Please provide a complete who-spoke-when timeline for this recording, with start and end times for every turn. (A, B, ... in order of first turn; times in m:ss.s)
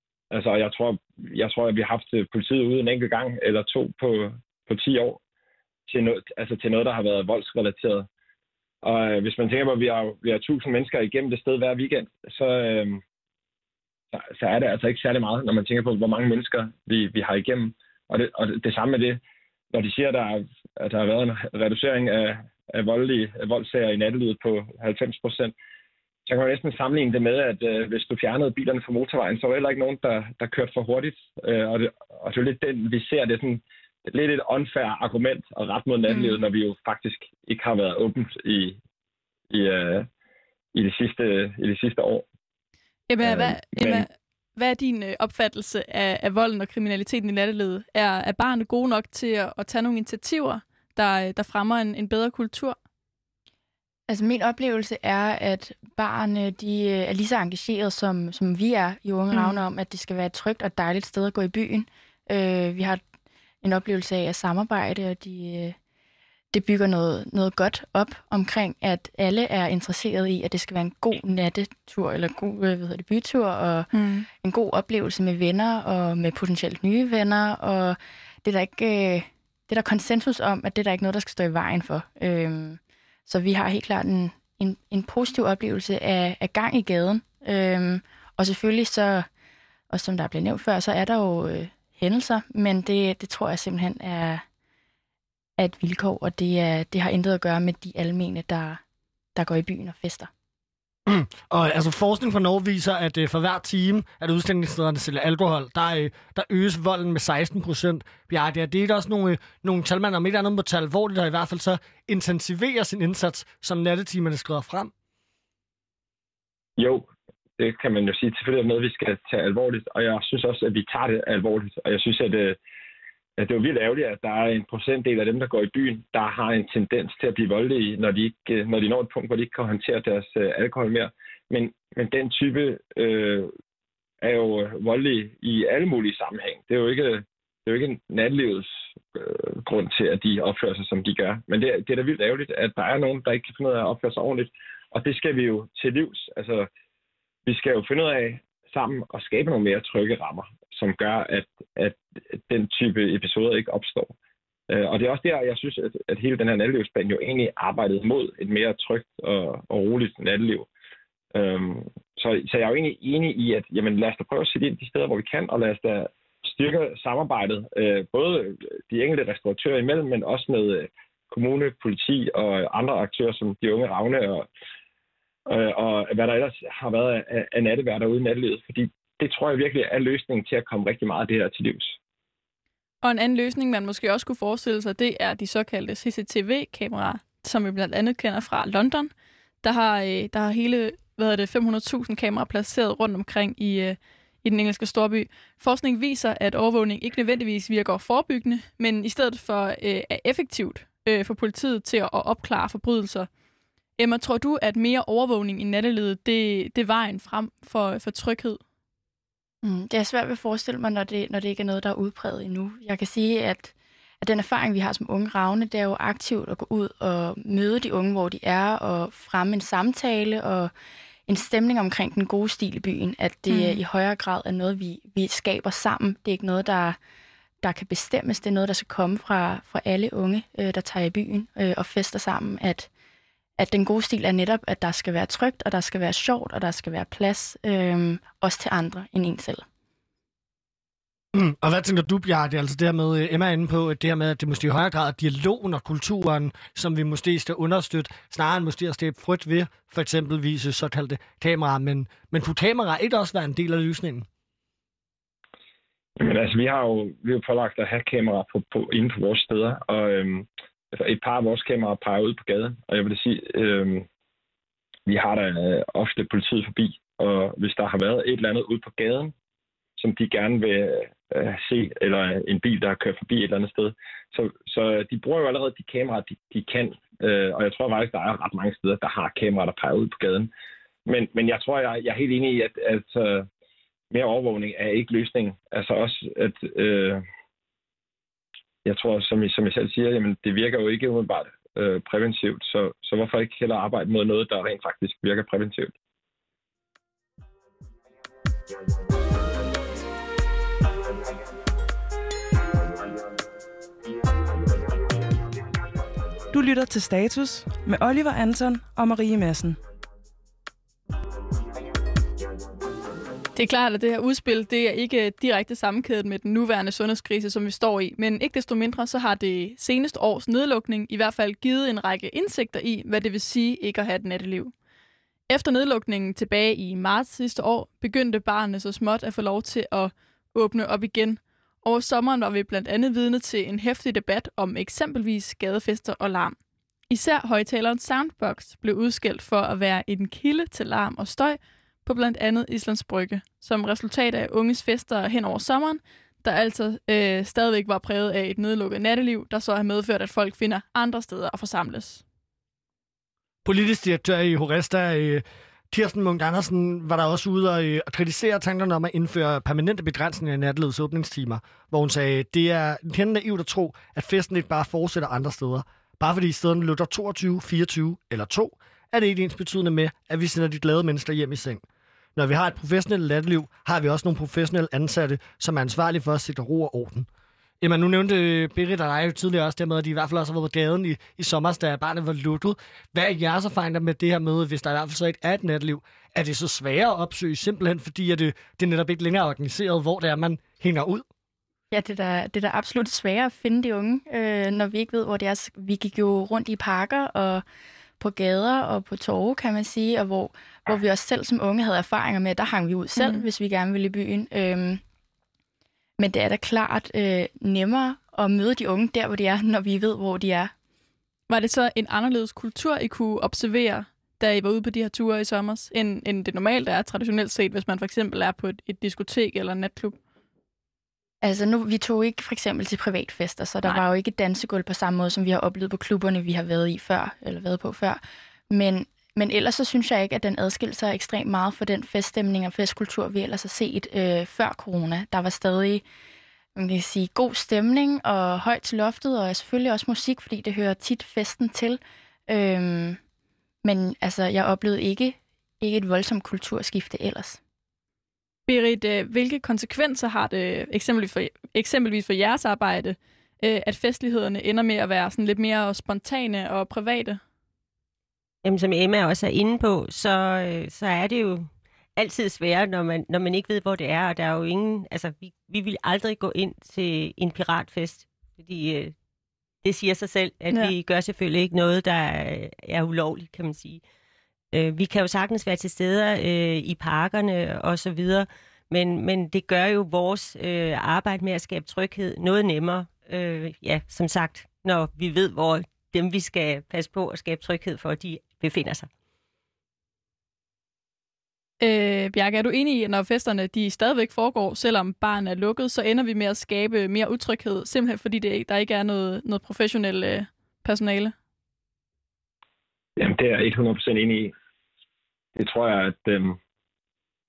0:00.3-0:05.2 A
0:05.9-0:08.1 A
0:08.8-0:13.0 A
0:14.1-0:25.5 A
0:26.3-0:38.8 A
0:36.1-0:36.4 B
0:39.5-0:40.1 A
0:40.7-0:42.3 A
0:43.1-0:52.8 B
0:43.2-0:44.1 A
0:54.1-1:03.0 C
0:59.3-0:59.6 B
1:03.6-1:05.8 C
1:06.5-1:29.3 C
1:13.9-1:14.3 B
1:29.9-1:34.4 C
1:35.6-1:38.8 C
1:39.4-1:40.3 C
1:41.1-1:54.9 D
1:56.8-2:02.6 A
2:03.4-2:13.5 A
2:14.2-2:26.7 A
2:27.5-2:34.1 A
2:34.7-2:40.7 A
2:41.3-2:54.5 A
2:55.5-3:02.0 A
3:03.0-3:09.1 B
3:09.6-3:23.3 B
3:24.0-3:28.6 B
3:29.6-3:40.7 C
3:41.3-3:47.0 C
3:43.5-3:43.8 B
3:47.6-3:52.9 C
3:53.6-3:59.6 C
4:01.3-4:14.3 D
4:16.2-4:24.1 A
4:25.1-4:29.3 A
4:30.0-4:40.5 A
4:41.1-4:43.5 A
4:44.1-4:47.2 A
4:48.8-4:55.9 A
5:06.5-5:09.8 E
5:13.6-5:24.7 B
5:25.5-5:36.6 B
5:37.1-5:52.2 B
5:53.6-6:11.8 D
6:12.4-6:17.3 D
6:17.8-6:31.3 D
6:31.9-6:37.6 C
6:38.2-6:45.0 C
6:43.2-6:43.4 B
6:46.2-6:50.7 C
6:51.5-7:00.2 B
7:01.4-7:16.0 C
7:16.8-7:23.2 C
7:23.8-7:27.6 C
7:28.7-7:37.4 B
7:38.6-7:49.2 F
7:49.8-7:54.0 F
7:54.7-8:09.1 F
8:11.8-8:21.3 B
8:23.2-8:24.5 A
8:25.6-8:26.6 A